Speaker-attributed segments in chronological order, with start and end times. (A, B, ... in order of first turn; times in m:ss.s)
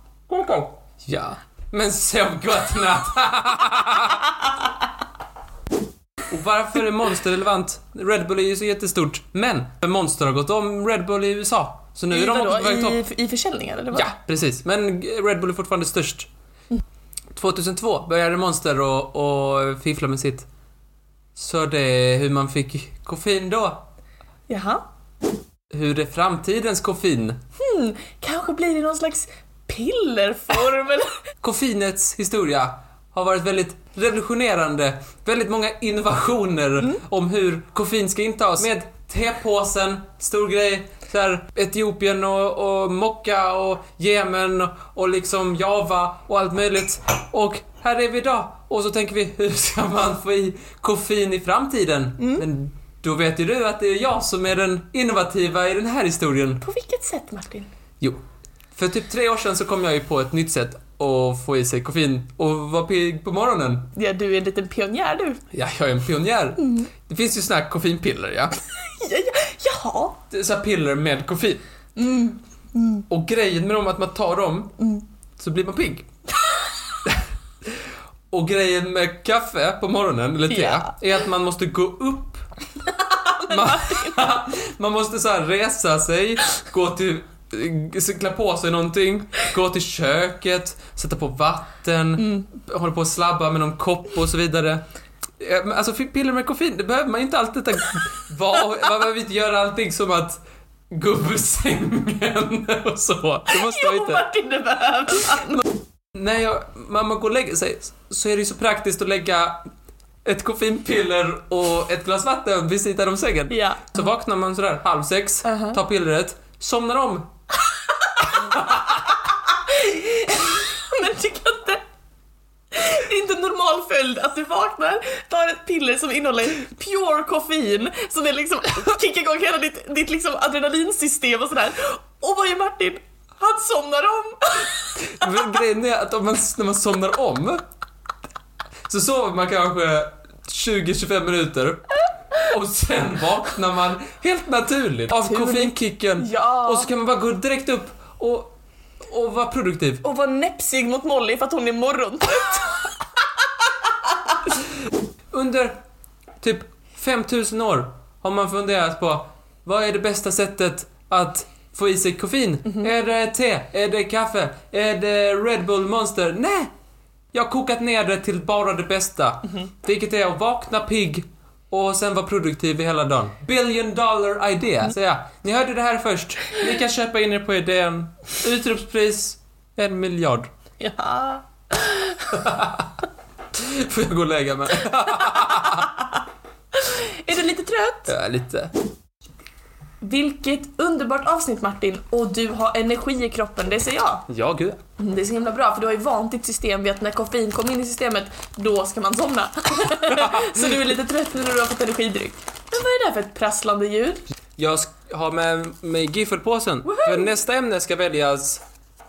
0:00.3-0:04.3 A
0:06.3-0:13.0 A
0:12.1-0:14.1 B
0:13.9-0:16.3 A
0:17.3-0:20.5 A
0:21.4-0:23.8 A
0:24.5-0:24.8 B
0:25.7-0:27.4 A
0:27.6-0:31.2 B
0:31.4-0:56.6 A
0:52.2-0:52.4 B
0:56.6-0:57.7 B
0:58.7-1:03.9 A
1:03.9-1:05.4 B
1:05.5-1:08.6 A
1:06.6-1:06.9 B
1:08.8-1:10.2 B
1:10.3-1:11.6 A
1:12.0-1:13.0 B
1:13.1-1:14.8 A
1:14.8-1:15.0 B
1:15.4-1:16.1 A
1:16.4-1:17.0 B
1:17.0-1:17.8 A
1:18.3-1:22.4 A
1:20.5-1:20.9 B
1:22.9-1:24.4 B
1:23.4-1:34.8 A
1:32.2-1:32.4 B
1:35.4-1:40.4 A
1:40.9-1:44.2 A
1:43.5-1:45.6 B
1:46.1-1:49.7 A
1:50.2-1:57.3 A
1:53.5-1:54.0 B
1:55.4-1:55.8 B
1:57.7-2:01.8 B
1:58.2-1:59.0 A
2:02.7-2:15.5 B
2:15.0-2:17.6 A
2:18.9-2:30.0 A
2:25.1-2:26.9 B
2:30.0-2:34.4 B
2:35.3-2:35.8 A
2:36.4-2:46.7 A
2:47.3-3:00.5 A
3:00.8-3:02.4 B
3:02.3-3:06.0 A
3:05.4-3:05.8 B
3:06.7-3:08.1 B
3:08.1-3:08.7 A
3:10.0-3:14.3 B
3:14.3-3:14.8 A
3:15.0-3:24.2 B
3:20.0-3:20.7 A
3:24.6-3:28.6 A
3:26.8-3:27.3 B